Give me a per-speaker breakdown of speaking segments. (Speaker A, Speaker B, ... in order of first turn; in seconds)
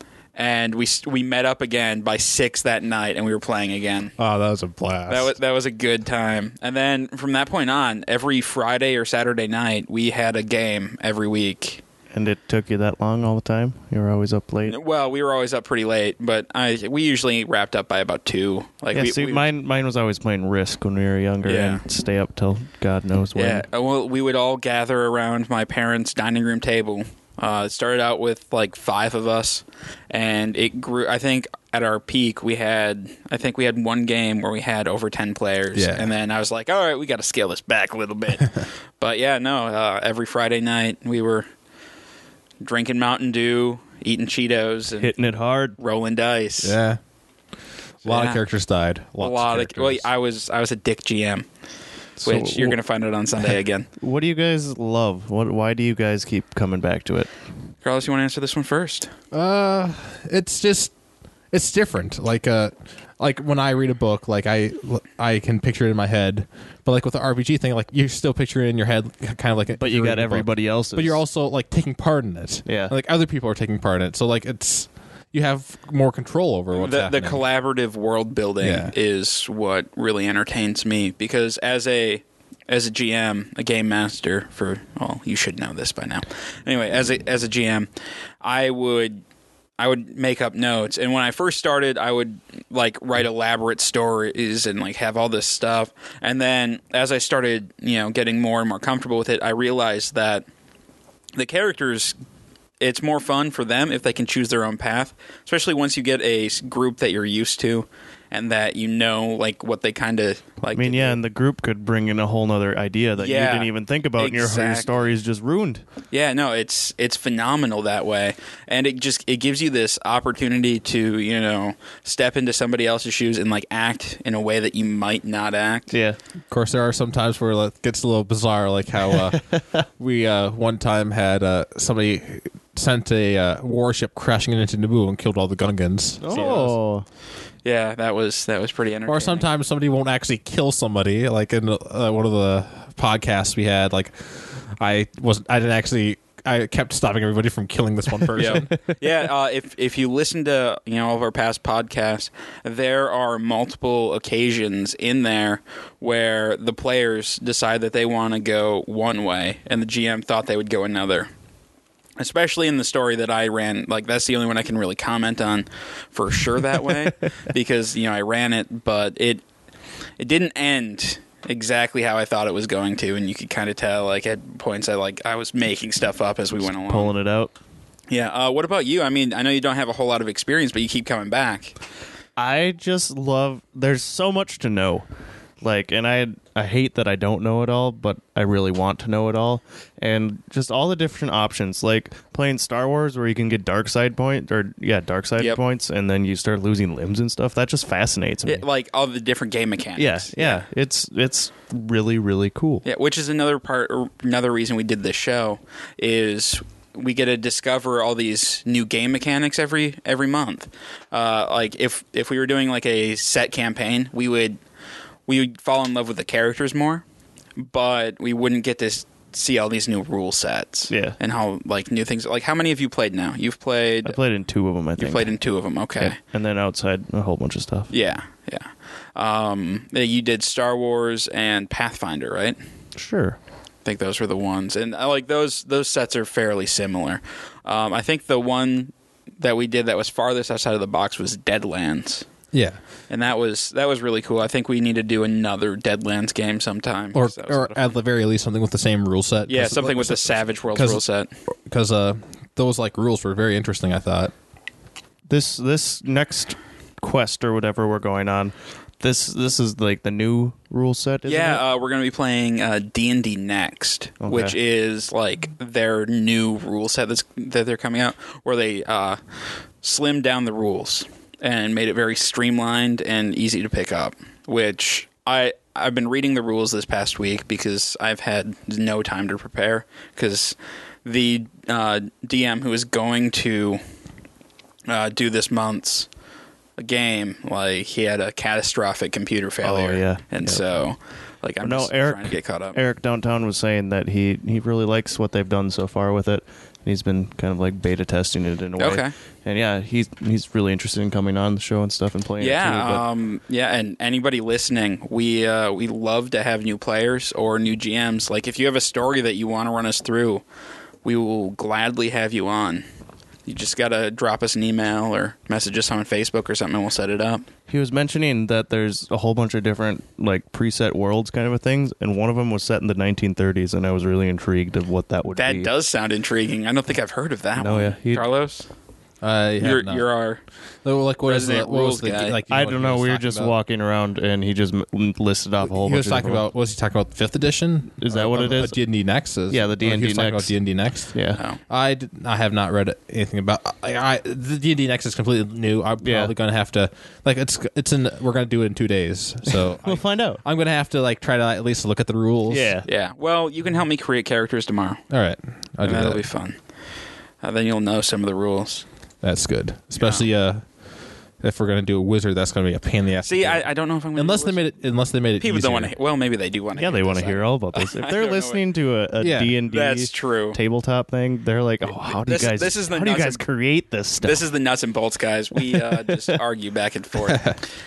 Speaker A: 0.4-4.2, 5.1-11.8, 14.7-19.5, 21.4-21.8, 23.4-41.5, 42.6-45.1, 45.8-46.8, 48.0-48.4, 49.2-51.5, 52.2-53.9, 57.8-59.1, 76.7-87.9, 88.4-89.2, 89.8-100.5, 101.4-102.2, 102.8-111.2, 113.2-115.0, 116.1-126.0, 137.7-139.5, 148.4-161.3, 162.2-169.4, 170.2-177.1, 178.1-181.8, 198.5-200.6, 202.8-214.6, 215.3-217.0, 217.6-224.2, 225.0-226.2, 227.9-232.6, 233.8-242.3, 243.1-247.9, 249.5-251.3, 261.3-269.2, 269.8-283.8, 284.9-286.1, 286.8-292.8, 298.8-299.1, 302.4-310.4, 311.0-312.8, 313.5-317.5, 325.3-328.7, 329.6-330.4, 331.2-332.4, 352.9-355.0, 355.8-356.6, 357.4-358.9, 360.0-360.3, 363.2-364.6, 365.4-368.6, 369.7-370.6, 372.2-373.4, 374.2-377.6
Speaker B: 4.2-5.3, 35.8-36.1, 46.6-47.0, 48.0-50.1, 59.3-60.9, 61.5-77.4, 78.6-78.9, 126.5-136.8, 139.1-148.7, 242.5-242.8, 247.1-251.0, 251.7-254.3, 329.2-330.1, 330.8-333.6, 335.6-341.1, 341.7-352.8, 355.1-356.2, 359.2-360.6, 361.4-365.9, 369.2-369.6, 377.3-377.6
Speaker C: 12.1-14.8, 18.9-23.6, 45.0-45.8, 52.2-52.8, 54.0-57.3, 69.8-71.2, 72.7-72.9, 110.7-115.8, 125.9-126.2, 136.2-137.1, 176.7-177.5, 182.4-185.1, 185.6-198.7, 200.0-202.8, 220.9-221.2, 224.1-225.3, 226.0-227.9, 233.0-233.4, 255.3-261.6, 264.2-264.6, 289.6-290.8, 291.6-303.0, 317.7-325.7, 327.6-328.2, 332.5-336.4, 338.0-338.8, 339.5-340.5, 341.1-341.4, 346.0-346.3, 349.5-350.4, 352.5-352.9, 366.8-374.5, 375.6-376.4